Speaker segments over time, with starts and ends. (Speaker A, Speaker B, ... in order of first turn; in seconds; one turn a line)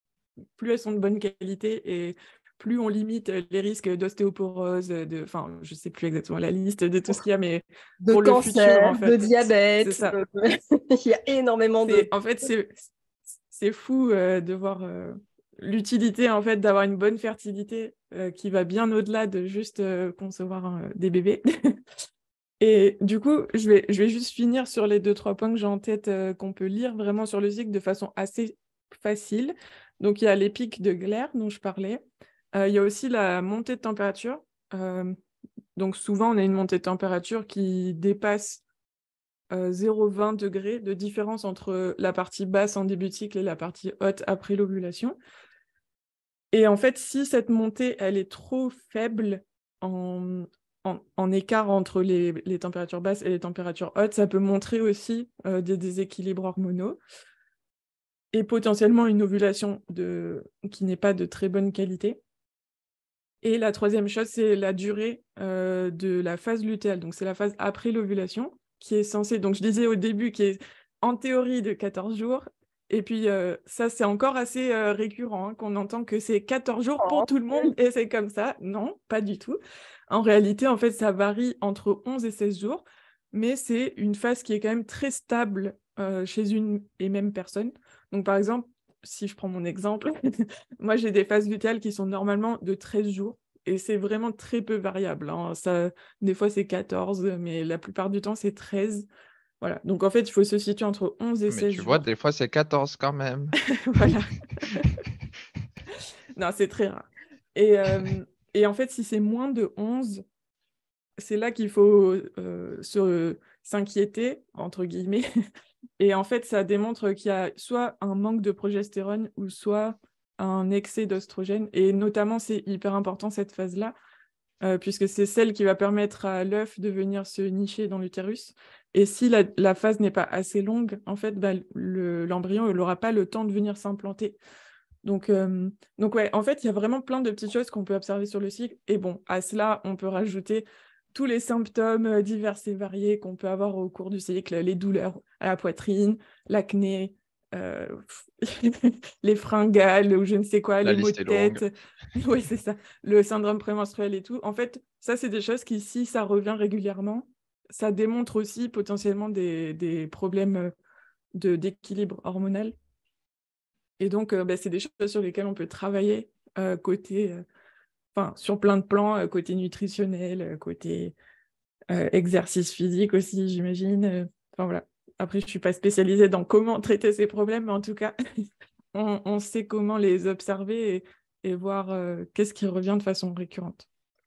Speaker A: 0.6-10.2
Speaker B: 8.0-12.1
Speaker A: 11.9-12.8
Speaker A: 13.5-21.8
Speaker A: 22.6-32.0
Speaker A: 32.5-35.1
Speaker A: 35.8-38.6
Speaker A: 39.5-45.2
Speaker A: 46.5-57.0
Speaker A: 58.3-62.2
Speaker A: 63.4-99.1
Speaker B: 77.0-77.7
Speaker A: 99.6-102.0
Speaker C: 101.5-104.2
Speaker A: 103.8-104.9
Speaker A: 106.4-110.2
Speaker A: 111.2-115.2
Speaker A: 116.0-123.9
Speaker A: 124.6-134.4
Speaker A: 135.0-160.7
Speaker C: 150.8-151.6
Speaker A: 161.3-162.7
Speaker A: 164.0-167.4
Speaker A: 168.1-171.2
Speaker A: 171.9-178.1
Speaker A: 178.9-183.9